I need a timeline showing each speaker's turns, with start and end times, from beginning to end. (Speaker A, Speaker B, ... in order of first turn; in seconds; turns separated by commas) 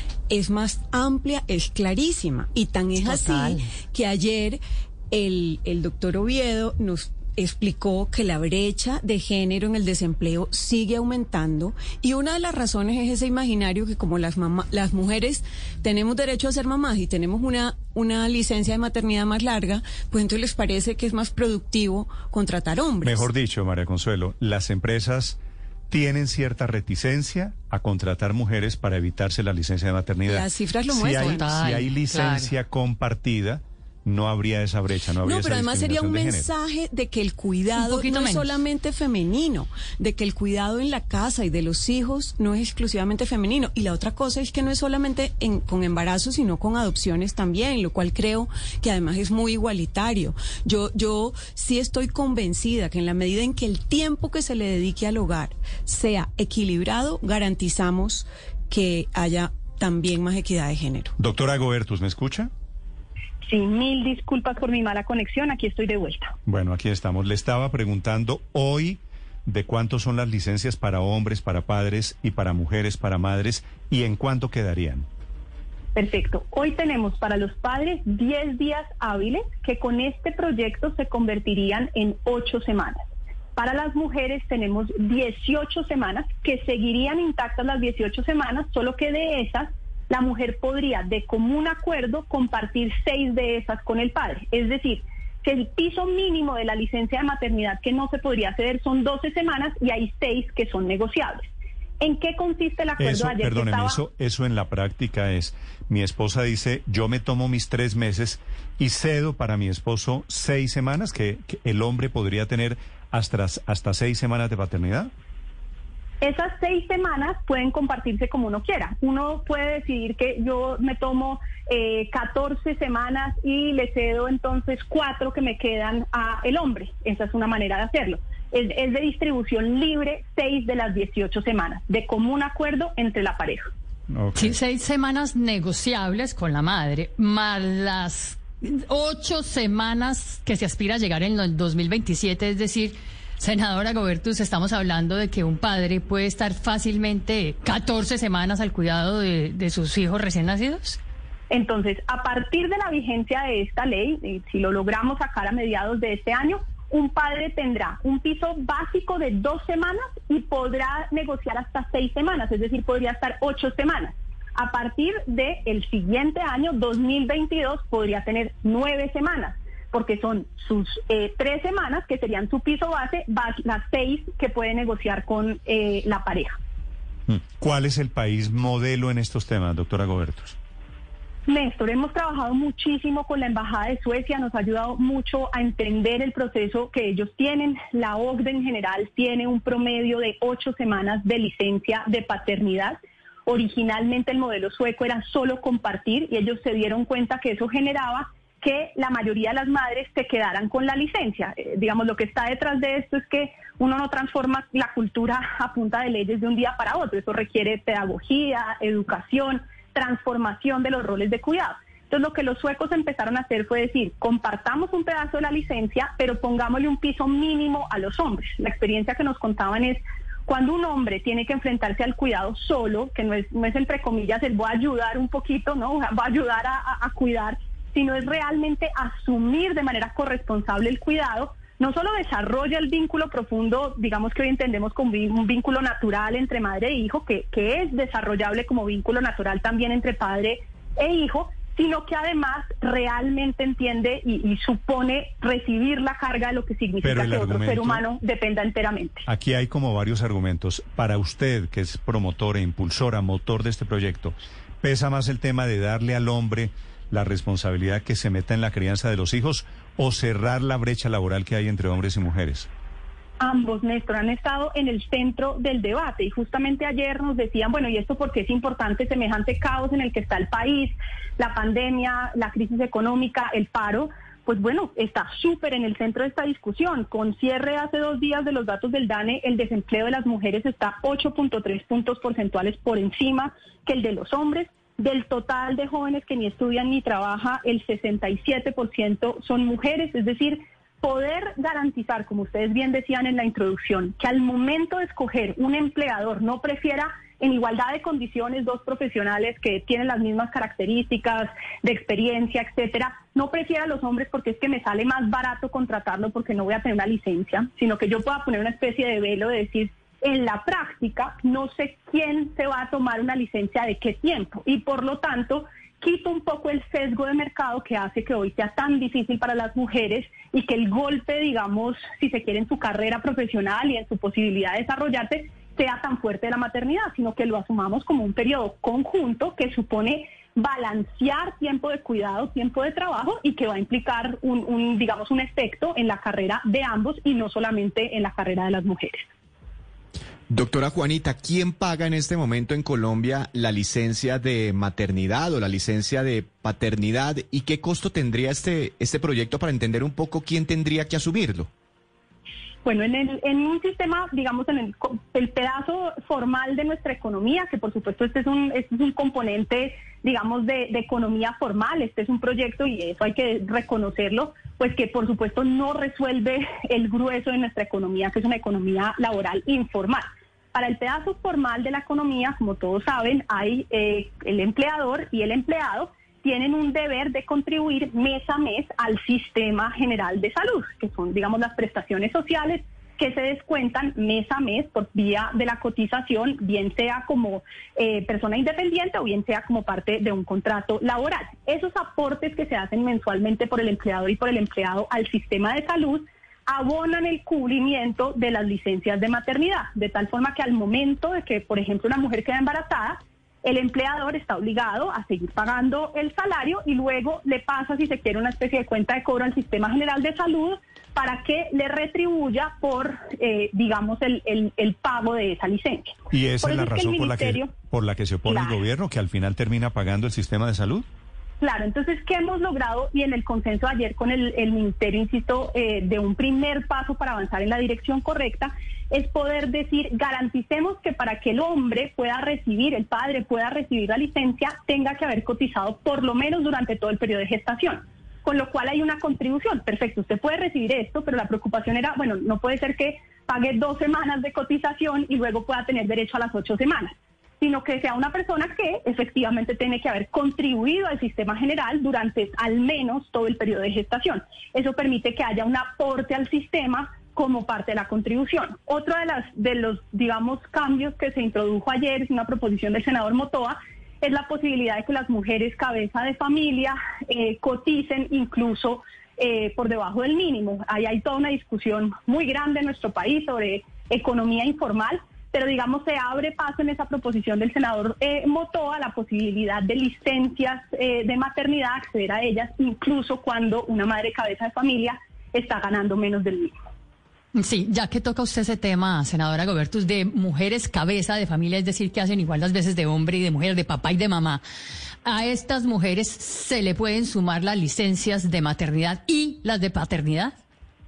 Speaker A: 0.3-23.3, Speaker B: 3.0-3.6, Speaker C: 23.0-25.4, Speaker C: 25.9-36.5, Speaker A: 30.3-31.4, Speaker B: 31.2-32.5, Speaker A: 35.2-61.1, Speaker B: 37.7-38.6, Speaker C: 61.2-62.5, Speaker D: 63.4-66.3, Speaker C: 66.5-75.1, Speaker D: 76.0-83.0, Speaker D: 83.5-101.5, Speaker D: 102.0-104.0, Speaker C: 103.0-115.1, Speaker D: 116.2-133.7, Speaker C: 134.1-134.6, Speaker B: 134.3-151.0, Speaker D: 151.5-176.6, Speaker C: 177.3-180.6, Speaker D: 181.5-249.2, Speaker C: 247.0-248.0, Speaker C: 249.3-262.7, Speaker D: 263.4-339.3, Speaker E: 340.5-351.7, Speaker D: 352.9-417.7, Speaker C: 416.3-421.1, Speaker D: 418.5-418.8, Speaker D: 421.6-486.7, Speaker B: 487.5-494.6, Speaker B: 495.2-500.6